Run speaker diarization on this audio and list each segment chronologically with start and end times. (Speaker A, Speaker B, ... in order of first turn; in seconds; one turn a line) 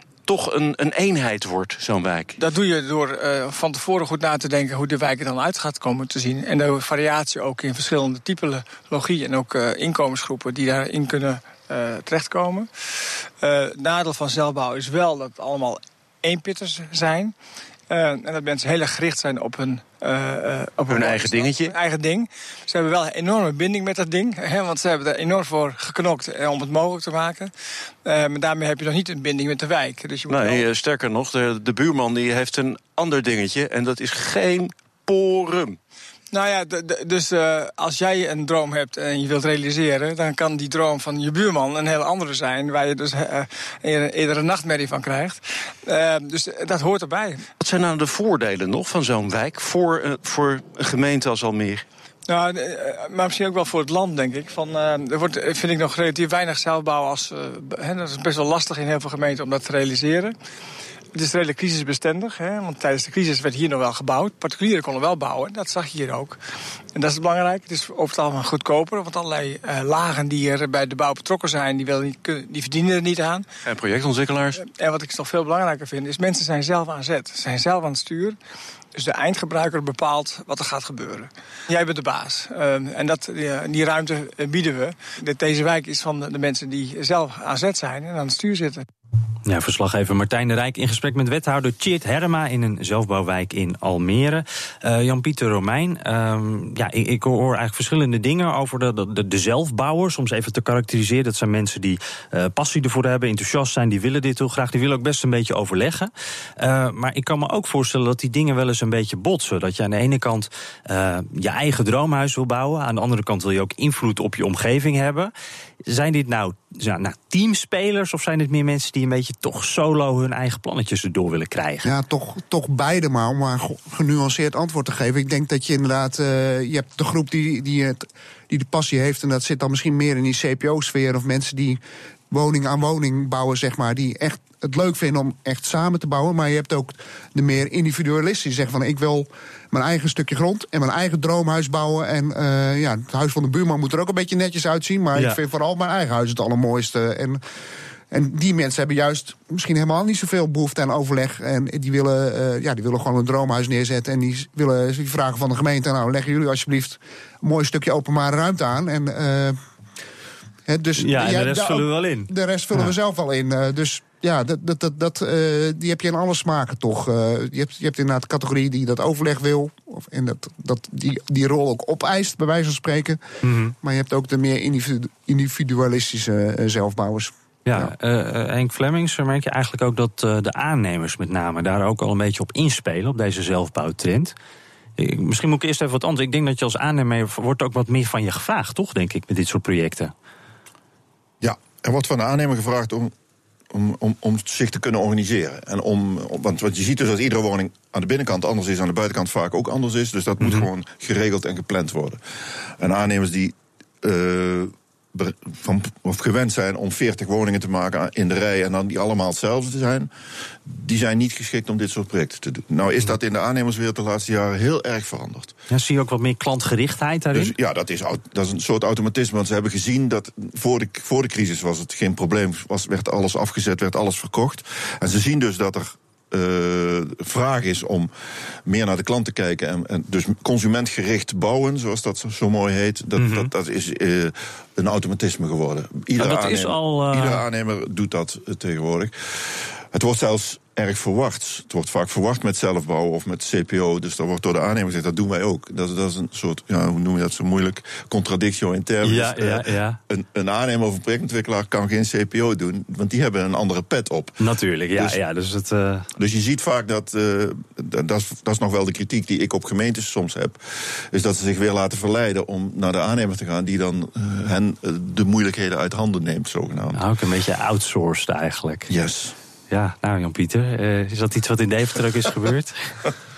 Speaker A: 0.2-2.4
Speaker B: 2.4-12.7
Speaker B: 13.4-17.3
Speaker B: 17.9-27.5
Speaker A: 20.9-21.8
Speaker B: 28.0-30.6
Speaker A: 30.3-35.8
Speaker B: 36.3-47.4
Speaker A: 47.6-51.8
Speaker B: 52.3-60.3
Speaker B: 61.1-66.4
Speaker B: 66.9-73.4
Speaker A: 73.6-74.6
Speaker B: 74.6-78.4
Speaker B: 78.9-88.8
Speaker C: 89.5-115.3
Speaker C: 115.8-121.9
Speaker D: 121.8-131.8
Speaker D: 132.3-147.4
Speaker D: 148.1-159.6
Speaker D: 160.7-173.2
Speaker C: 161.0-162.8
Speaker C: 173.4-173.7
Speaker D: 173.8-177.9
Speaker C: 177.7-184.3
Speaker C: 185.0-190.1
Speaker E: 191.4-193.1
Speaker E: 193.7-202.2
Speaker C: 200.4-200.7
Speaker E: 202.8-210.1
Speaker E: 210.6-215.5
Speaker C: 215.7-217.5
Speaker E: 217.3-228.1
Speaker E: 228.7-254.4
Speaker C: 233.2-233.5
Speaker C: 236.2-237.4
Speaker C: 249.0-250.0
Speaker C: 254.4-256.1
Speaker E: 256.1-267.0
Speaker C: 266.9-268.9
Speaker E: 268.9-269.3
Speaker C: 269.7-273.0